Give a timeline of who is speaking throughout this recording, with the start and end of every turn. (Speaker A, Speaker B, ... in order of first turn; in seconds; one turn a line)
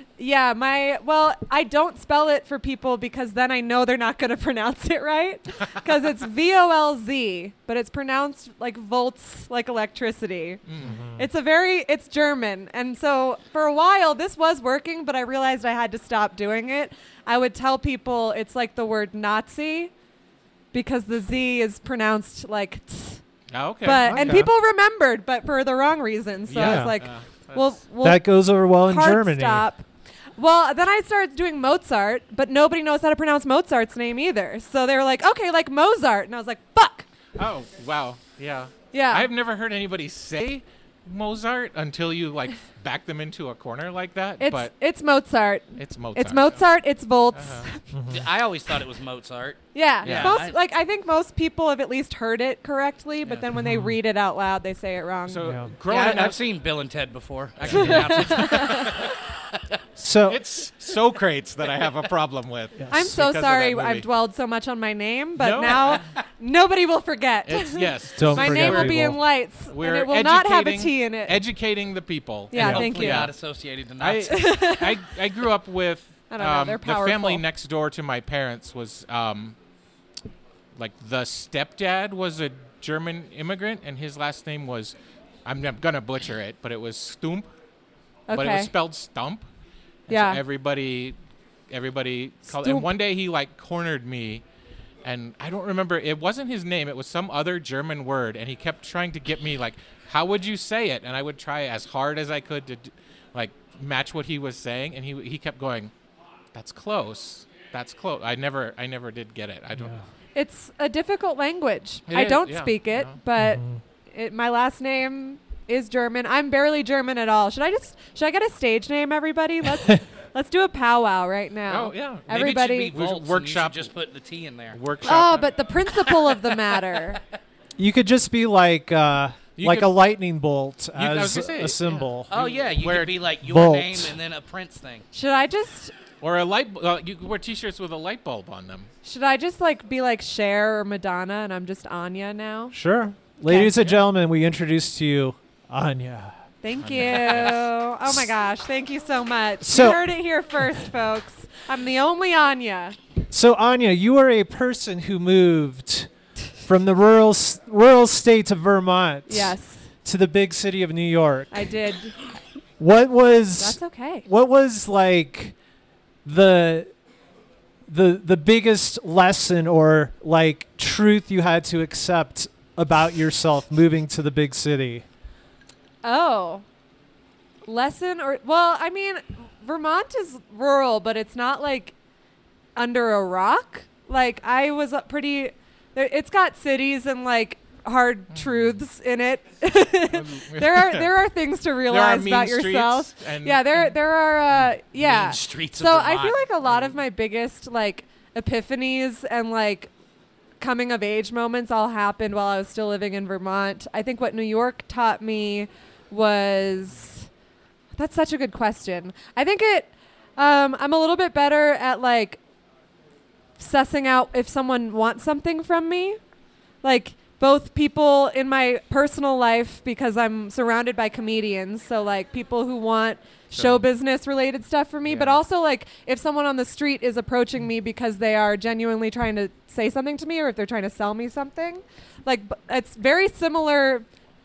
Speaker A: 0.2-10.6
Speaker B: 10.7-11.0
Speaker C: 10.8-11.2
Speaker A: 11.2-19.9
Speaker A: 20.7-23.2
Speaker B: 23.5-24.3
Speaker A: 23.8-29.8
Speaker C: 24.0-24.5
Speaker B: 26.5-27.8
Speaker C: 26.5-26.9
Speaker C: 28.0-29.7
Speaker A: 30.4-37.0
Speaker B: 37.4-44.7
Speaker A: 38.9-39.3
Speaker A: 44.4-47.8
Speaker B: 45.8-46.6
Speaker B: 47.3-47.7
Speaker C: 47.9-48.2
Speaker D: 48.1-50.5
Speaker A: 49.7-55.5
Speaker B: 50.0-50.4
Speaker C: 53.5-53.9
Speaker B: 55.3-56.4
Speaker C: 55.4-55.7
Speaker D: 55.9-59.6
Speaker B: 57.6-59.1
Speaker A: 57.7-59.1
Speaker C: 60.0-60.4
Speaker B: 60.2-64.0
Speaker D: 61.7-62.1
Speaker A: 62.9-71.4
Speaker B: 65.4-66.0
Speaker D: 65.7-66.0
Speaker B: 67.5-73.3
Speaker C: 68.2-69.2
Speaker A: 72.5-73.3
Speaker C: 72.5-72.8
Speaker D: 72.5-74.4
Speaker B: 74.0-79.5
Speaker A: 74.2-75.0
Speaker A: 76.3-77.4
Speaker B: 80.8-87.5
Speaker A: 88.3-88.7
Speaker B: 88.3-89.5
Speaker B: 90.1-91.2
Speaker A: 90.1-90.4
Speaker B: 91.7-94.4
Speaker A: 92.5-92.9
Speaker B: 95.0-105.9
Speaker B: 106.5-110.0
Speaker C: 109.8-110.0
Speaker A: 110.3-122.9
Speaker B: 112.1-113.2
Speaker C: 113.4-113.8
Speaker B: 121.7-123.9
Speaker D: 122.3-124.8
Speaker B: 124.7-125.6
Speaker A: 125.0-127.2
Speaker D: 125.9-126.5
Speaker C: 127.8-132.3
Speaker B: 129.6-129.9
Speaker B: 130.9-133.2
Speaker D: 132.3-135.0
Speaker C: 133.4-134.2
Speaker A: 135.1-135.9
Speaker B: 136.2-138.9
Speaker A: 139.0-142.7
Speaker C: 142.7-146.3
Speaker A: 143.5-143.7
Speaker B: 143.7-144.0
Speaker A: 146.6-152.9
Speaker B: 146.8-147.7
Speaker C: 149.6-150.0
Speaker C: 153.3-156.1
Speaker C: 156.6-159.5
Speaker A: 159.3-159.8
Speaker C: 160.0-161.7
Speaker A: 161.5-162.2
Speaker C: 162.8-165.5
Speaker A: 163.6-164.2
Speaker C: 166.2-166.9
Speaker C: 167.9-175.0
Speaker A: 176.0-176.6
Speaker A: 177.7-181.9
Speaker A: 182.8-199.9
Speaker B: 188.3-188.8
Speaker B: 190.1-191.1
Speaker B: 191.9-193.9
Speaker D: 194.9-196.4
Speaker A: 200.6-207.3
Speaker A: 207.9-212.4
Speaker A: 213.6-216.2
Speaker A: 216.8-234.1
Speaker B: 223.5-223.8
Speaker B: 225.1-225.4